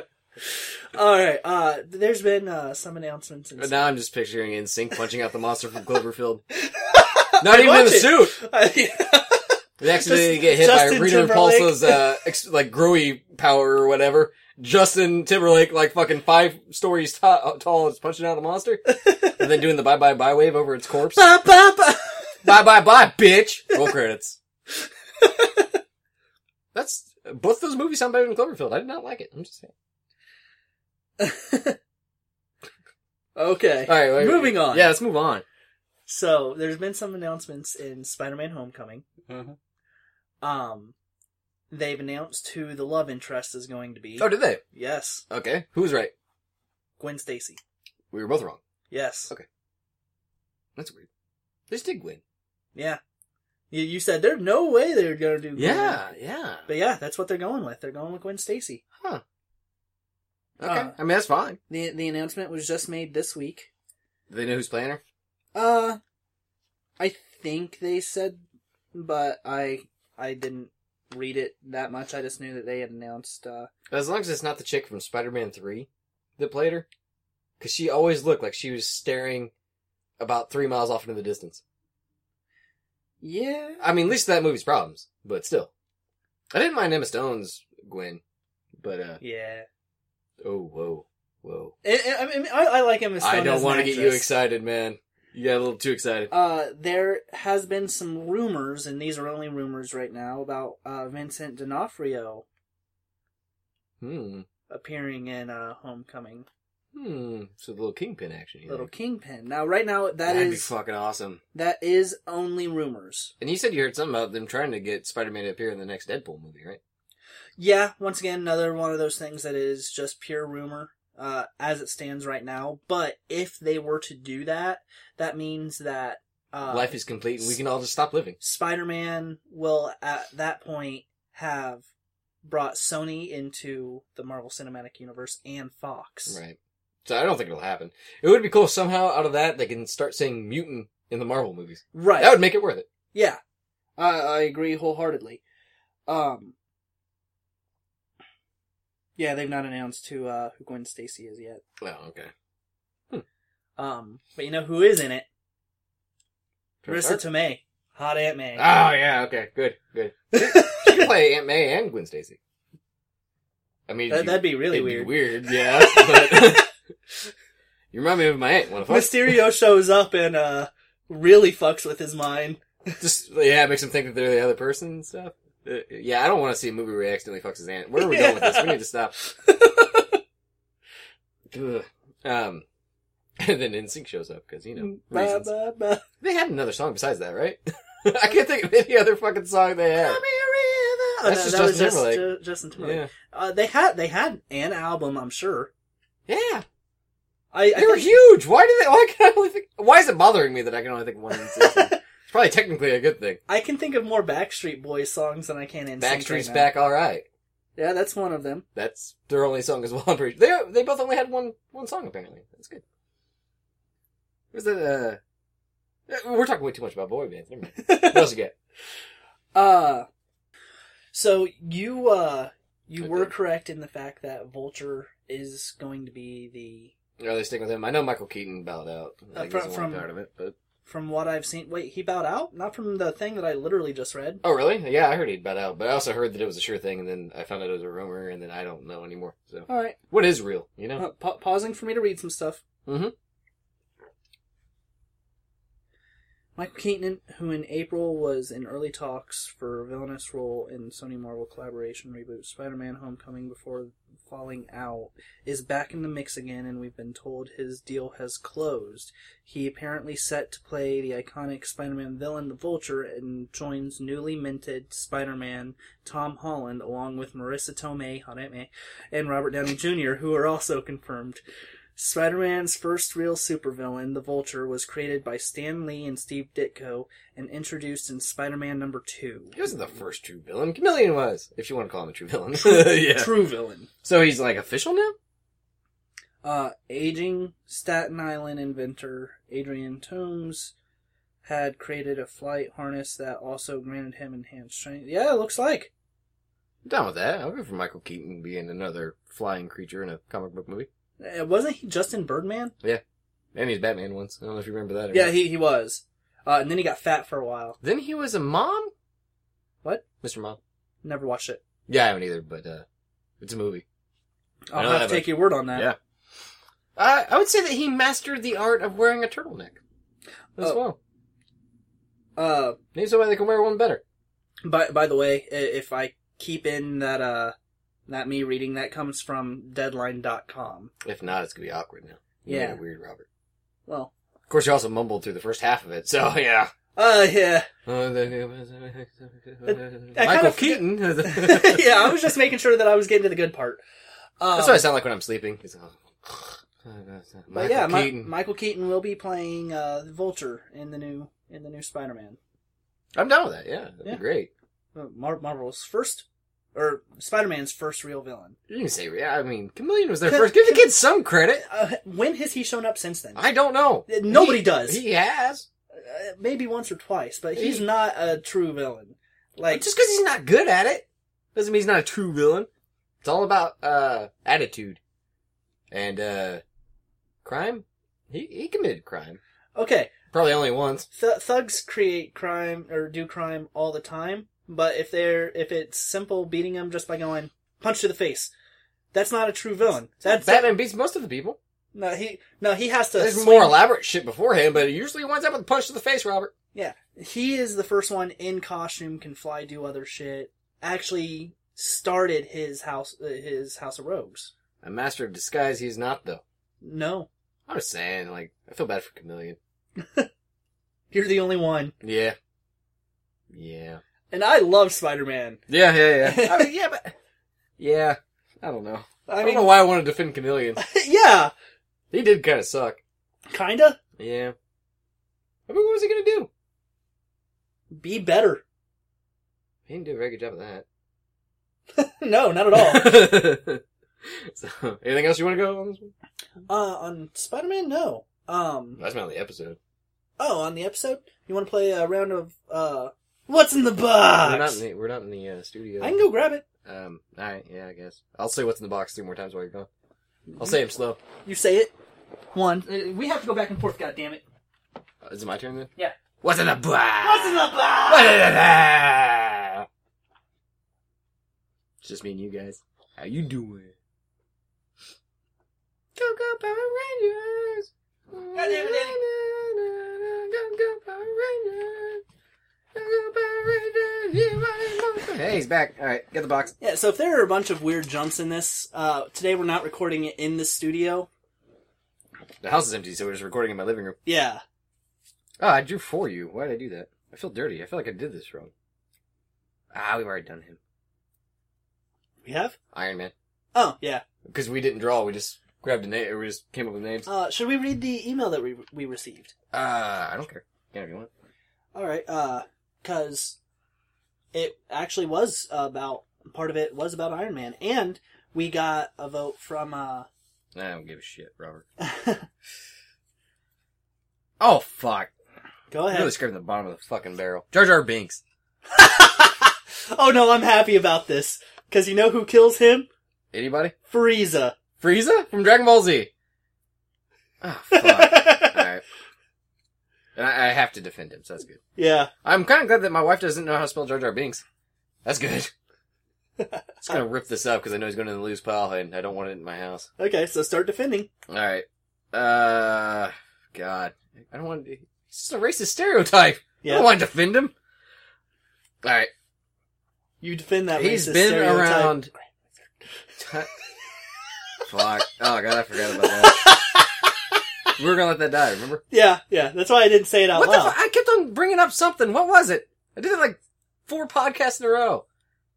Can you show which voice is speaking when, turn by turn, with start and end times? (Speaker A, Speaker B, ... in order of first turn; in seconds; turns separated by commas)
Speaker A: 0.5-3.9, Speaker B: 3.6-6.4, Speaker A: 6.6-12.1, Speaker B: 7.4-8.3, Speaker B: 9.8-21.3, Speaker A: 18.9-19.4, Speaker A: 21.1-22.4, Speaker B: 22.4-24.4, Speaker A: 25.2-25.7, Speaker B: 26.7-29.7, Speaker A: 31.2-31.8, Speaker A: 33.4-34.9, Speaker B: 33.9-35.4, Speaker A: 36.1-39.0, Speaker B: 39.3-39.5, Speaker A: 40.4-40.9, Speaker A: 41.7-45.2, Speaker B: 44.2-44.6, Speaker B: 45.3-46.1, Speaker A: 47.0-47.6, Speaker B: 48.1-48.6, Speaker A: 48.9-49.3, Speaker B: 50.8-51.1, Speaker B: 51.7-52.2, Speaker A: 52.7-53.0, Speaker A: 53.7-56.0, Speaker B: 55.5-56.6, Speaker A: 56.7-58.8, Speaker B: 60.6-61.6, Speaker A: 60.6-61.0, Speaker A: 61.7-63.7, Speaker B: 64.3-65.0, Speaker A: 65.5-66.0, Speaker A: 67.0-68.4, Speaker A: 68.9-73.7, Speaker B: 73.9-76.8, Speaker B: 77.6-79.5, Speaker B: 80.2-81.6, Speaker A: 83.2-83.8, Speaker B: 83.8-85.7, Speaker B: 86.5-88.2, Speaker B: 88.8-89.2, Speaker A: 89.2-89.7, Speaker B: 90.4-91.7, Speaker A: 91.8-94.3, Speaker B: 93.2-96.3, Speaker A: 96.3-102.4, Speaker B: 104.0-104.5, Speaker A: 104.7-106.5, Speaker B: 106.9-108.9, Speaker A: 108.7-110.7, Speaker B: 110.2-111.4, Speaker A: 111.5-113.3, Speaker B: 113.4-116.8, Speaker A: 117.6-127.6, Speaker B: 126.7-128.4, Speaker A: 128.4-131.9, Speaker A: 132.4-136.4, Speaker B: 136.3-142.9, Speaker A: 141.9-142.4, Speaker A: 143.1-143.4, Speaker A: 144.0-145.4, Speaker A: 146.1-146.5, Speaker A: 149.2-151.6, Speaker B: 151.8-152.3, Speaker A: 153.8-155.2, Speaker B: 156.8-157.2, Speaker A: 156.9-158.7, Speaker B: 158.6-162.4, Speaker A: 160.3-161.1, Speaker B: 163.9-166.7, Speaker A: 164.1-166.7, Speaker B: 167.9-169.4, Speaker A: 168.9-173.0, Speaker B: 173.0-179.1, Speaker A: 178.0-180.2, Speaker B: 181.5-182.6, Speaker B: 183.4-185.5, Speaker A: 184.8-186.0, Speaker B: 186.2-190.2, Speaker A: 189.9-195.7, Speaker B: 191.2-193.1, Speaker B: 196.3-196.6, Speaker A: 197.5-198.1, Speaker B: 197.7-203.4, Speaker A: 201.3-202.0, Speaker A: 203.5-206.7, Speaker B: 206.0-207.2, Speaker A: 207.8-208.6, Speaker B: 208.7-212.8, Speaker B: 214.5-215.2, Speaker B: 216.1-218.5, Speaker A: 217.8-218.3, Speaker A: 219.5-220.1, Speaker A: 221.1-226.9, Speaker B: 223.0-223.3, Speaker B: 227.2-230.6, Speaker A: 229.3-230.1, Speaker A: 230.8-234.4, Speaker B: 234.4-241.0, Speaker A: 239.7-240.0, Speaker A: 240.9-242.6, Speaker B: 242.8-243.1, Speaker A: 246.6-271.4, Speaker A: 271.9-279.6, Speaker B: 279.6-283.3, Speaker A: 282.5-283.9, Speaker B: 284.0-285.1, Speaker A: 286.4-290.7, Speaker A: 291.4-295.9, Speaker B: 296.8-300.9, Speaker A: 301.2-302.7, Speaker B: 303.5-305.4, Speaker A: 305.1-307.8, Speaker B: 307.8-308.9, Speaker B: 310.2-310.6, Speaker A: 311.0-311.6, Speaker B: 311.9-312.8, Speaker B: 313.4-313.8, Speaker A: 314.7-315.9, Speaker B: 314.7-316.0, Speaker B: 316.9-319.8, Speaker B: 320.6-321.0, Speaker A: 322.4-322.8, Speaker B: 322.9-324.0, Speaker A: 324.6-327.5, Speaker A: 328.1-330.9, Speaker B: 331.0-333.2, Speaker A: 332.5-332.8, Speaker A: 333.9-334.1, Speaker B: 334.5-336.7, Speaker A: 336.9-337.7, Speaker B: 337.9-342.3, Speaker A: 339.6-343.8, Speaker A: 344.4-344.9, Speaker B: 344.5-348.3, Speaker A: 347.5-352.4, Speaker B: 353.1-354.5, Speaker A: 354.9-358.6, Speaker B: 358.7-361.6, Speaker A: 360.3-360.9, Speaker A: 361.7-363.4, Speaker B: 363.4-365.7, Speaker A: 364.1-365.0, Speaker A: 365.9-369.9, Speaker B: 367.6-367.9, Speaker B: 369.7-372.7, Speaker B: 373.2-375.0, Speaker B: 375.9-376.6, Speaker B: 377.4-379.4, Speaker A: 379.8-380.1, Speaker B: 380.3-381.1, Speaker A: 381.1-388.5, Speaker A: 389.1-390.7, Speaker B: 390.2-391.6, Speaker A: 391.9-393.8, Speaker B: 393.2-396.5, Speaker A: 396.7-404.5, Speaker B: 404.8-406.4, Speaker A: 406.8-407.3, Speaker B: 407.7-409.6, Speaker A: 410.0-410.3, Speaker A: 411.1-411.9, Speaker B: 412.0-412.4, Speaker B: 413.5-414.0, Speaker A: 414.3-415.6, Speaker B: 415.7-417.1, Speaker A: 416.2-416.7, Speaker B: 417.8-420.8, Speaker A: 419.3-419.8, Speaker A: 420.8-421.5, Speaker B: 422.1-423.0, Speaker A: 423.5-424.0, Speaker B: 424.2-424.5, Speaker B: 425.7-426.5, Speaker A: 427.9-428.6, Speaker B: 429.9-430.8, Speaker A: 431.9-433.3, Speaker B: 432.7-436.1, Speaker A: 436.7-439.0, Speaker B: 439.0-439.8, Speaker A: 440.4-444.8, Speaker B: 444.4-446.2, Speaker A: 446.0-446.6, Speaker B: 446.8-449.9, Speaker A: 450.5-450.7, Speaker B: 450.6-451.2, Speaker A: 451.4-451.9, Speaker A: 452.5-454.4, Speaker B: 455.2-459.9, Speaker A: 457.2-458.4, Speaker B: 462.0-463.9, Speaker B: 466.1-472.2, Speaker A: 468.5-469.2, Speaker B: 472.9-476.7, Speaker A: 476.8-481.3, Speaker B: 482.6-484.1, Speaker A: 484.2-484.6, Speaker B: 485.6-488.7, Speaker B: 489.9-490.8, Speaker A: 492.4-492.8, Speaker B: 492.9-493.3, Speaker A: 493.7-494.2, Speaker B: 494.4-497.3, Speaker A: 497.2-499.5, Speaker B: 499.7-501.3, Speaker A: 501.9-503.6, Speaker A: 504.5-510.3, Speaker B: 510.7-511.8, Speaker A: 512.0-512.5, Speaker B: 514.6-515.3, Speaker A: 515.9-516.3, Speaker B: 516.1-518.4, Speaker A: 518.9-523.1, Speaker B: 523.5-523.9, Speaker A: 524.1-524.8, Speaker B: 525.0-526.3, Speaker B: 527.6-529.0, Speaker A: 527.9-528.8, Speaker B: 530.4-531.8, Speaker A: 532.0-532.3, Speaker B: 532.4-534.6, Speaker B: 535.2-535.7, Speaker B: 537.0-540.1, Speaker A: 540.2-541.3, Speaker B: 541.5-547.7, Speaker A: 546.8-547.1, Speaker B: 549.0-549.3, Speaker A: 550.4-552.1, Speaker B: 550.9-552.3, Speaker B: 553.4-553.7, Speaker B: 554.9-556.8, Speaker A: 556.2-557.1, Speaker B: 558.0-559.0, Speaker A: 559.1-560.9, Speaker B: 560.5-565.2